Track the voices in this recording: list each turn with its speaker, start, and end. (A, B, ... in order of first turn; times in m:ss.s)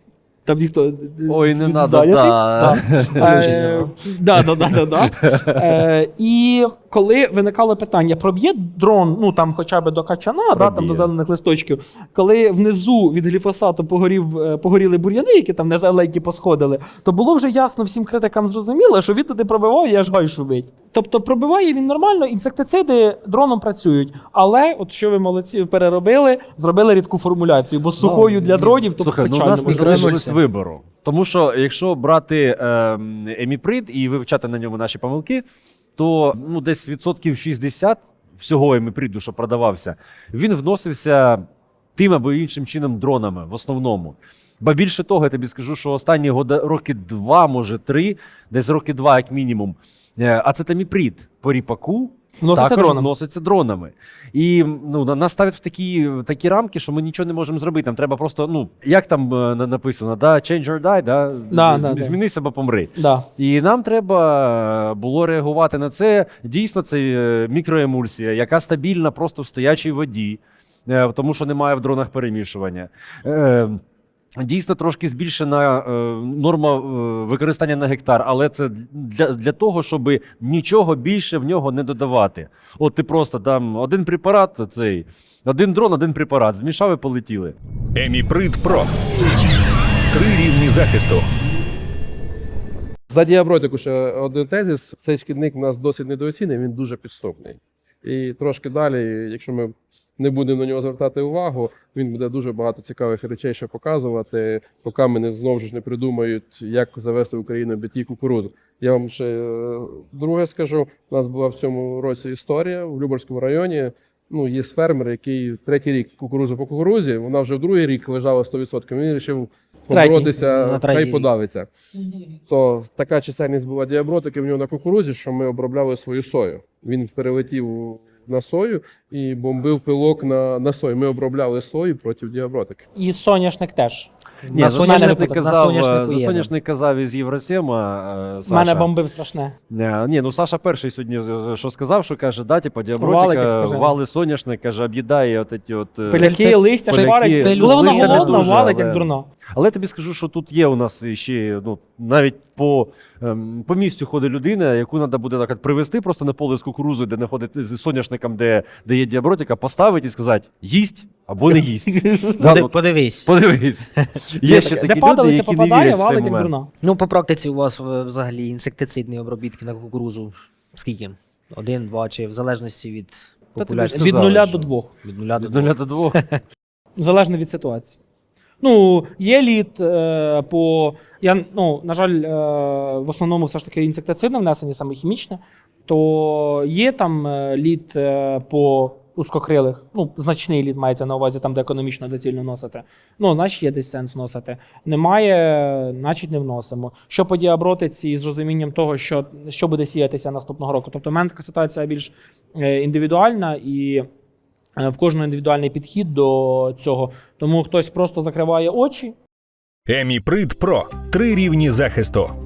0:00.4-0:30.1 A
0:01.3-0:03.9 B
0:03.3-0:03.8 C
0:10.5-0:11.1 B
0:28.0-0:28.8 C
0:29.0-0:35.4 B
0:29.6-0:30.4 C
0:36.0-0:41.4 B
0:42.0-1:13.8 B
0:52.4-0:53.1 A
1:01.5-1:02.2 A
1:03.0-1:03.3 A
1:14.4-1:27.5 B
1:27.9-1:28.9 D
1:30.1-1:31.2 D
1:33.1-2:01.7 E
1:59.9-2:00.3 A
2:00.5-2:01.2 C
2:02.5-2:12.8 E
2:12.9-2:15.5 A
2:14.4-2:16.5 C
2:14.5-2:18.9 B
2:18.4-2:19.5 A
2:19.7-2:46.5 B
2:23.0-2:24.0 A
2:26.1-2:29.3 A
2:26.2-2:28.5 C
2:42.3-2:43.3 C
2:44.4-2:46.7 A
2:46.8-2:56.4 C
2:53.6-2:54.4 B
2:53.9-2:54.9 A
2:55.4-2:56.2 B
2:57.0-2:58.0 A
2:58.6-3:24.0 A
3:24.8-3:29.2 A
3:29.9-3:32.3 D